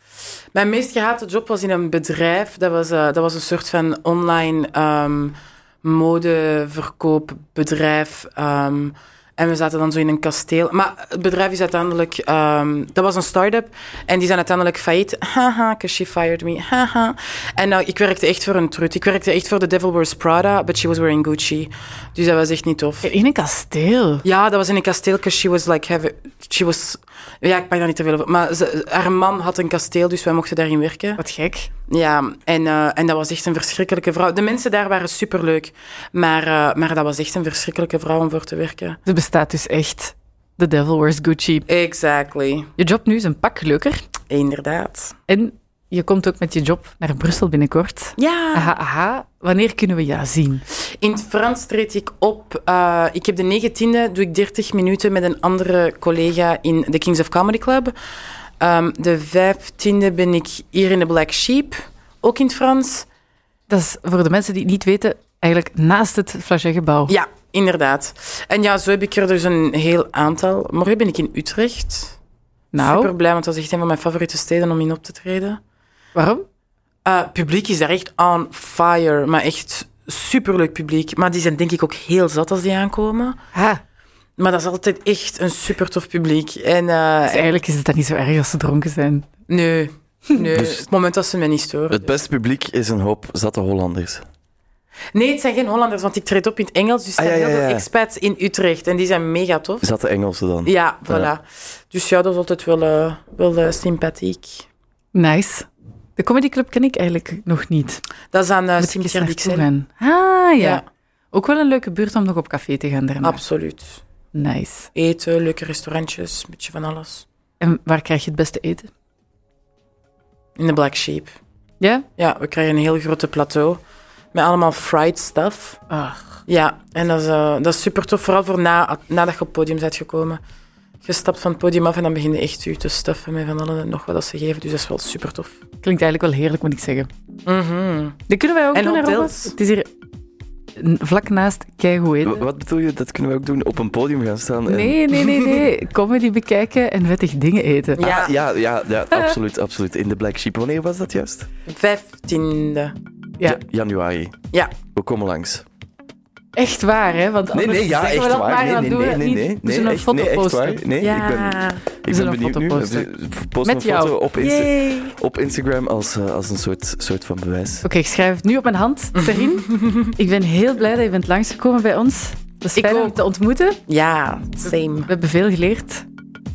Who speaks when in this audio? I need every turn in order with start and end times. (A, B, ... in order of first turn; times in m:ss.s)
0:00.5-0:23.1 A
0:23.0-0:24.2 B
0:24.2-0:31.2 A
0:31.2-0:31.7 B
0:31.9-0:39.0 A
0:39.0-0:41.6 B
0:41.7-0:42.7 A
0:42.8-0:44.0 B
0:44.3-0:45.2 A
0:45.3-0:50.6 B
0:48.2-0:48.7 A
0:51.0-0:57.9 A
0:58.6-1:03.1 A
1:03.7-1:07.1 B
1:07.1-1:12.2 A
1:12.7-1:13.1 B
1:12.8-1:15.6 A
1:16.1-1:16.4 B
1:17.0-1:23.4 A
1:23.5-1:23.8 B
1:24.4-1:27.5 A
1:27.3-1:29.3 B
1:29.5-1:32.1 A
1:30.5-1:30.8 C
1:31.9-1:34.2 C
1:35.1-1:39.9 A
1:37.2-1:37.8 C
1:39.8-1:41.3 C
1:40.6-1:44.7 A
1:45.1-1:48.0 B
1:48.3-1:49.7 A
1:48.8-1:53.4 B
1:53.2-1:54.0 A
1:54.3-1:54.9 B
1:54.9-1:57.2 A
1:57.6-1:58.9 B
2:00.6-2:01.3 A
2:01.8-2:02.0 B
2:02.2-2:03.8 A
2:04.3-2:05.8 A
2:05.9-2:06.2 B
2:06.5-2:10.4 A
2:11.0-2:15.6 A
2:15.8-2:17.1 B
2:17.4-2:18.2 A
2:18.3-2:19.9 B
2:18.7-2:19.5 A
2:20.8-2:22.4 B
2:22.2-2:25.1 C
2:24.6-2:28.0 B
2:27.9-2:28.4 A
2:28.0-2:31.5 C
2:31.7-2:32.9 A
2:33.4-2:34.4 C
2:34.5-2:34.8 A
2:34.9-2:35.6 C
2:36.6-2:40.9 B
2:37.5-2:47.9 C
2:41.0-2:41.9 A
2:42.0-2:43.1 B
2:43.6-2:44.2 B
2:44.4-2:45.1 A
2:47.8-2:53.8 B
2:49.2-2:50.1 A
2:52.8-2:53.2 A
2:53.9-2:55.1 A
2:55.1-2:56.0 B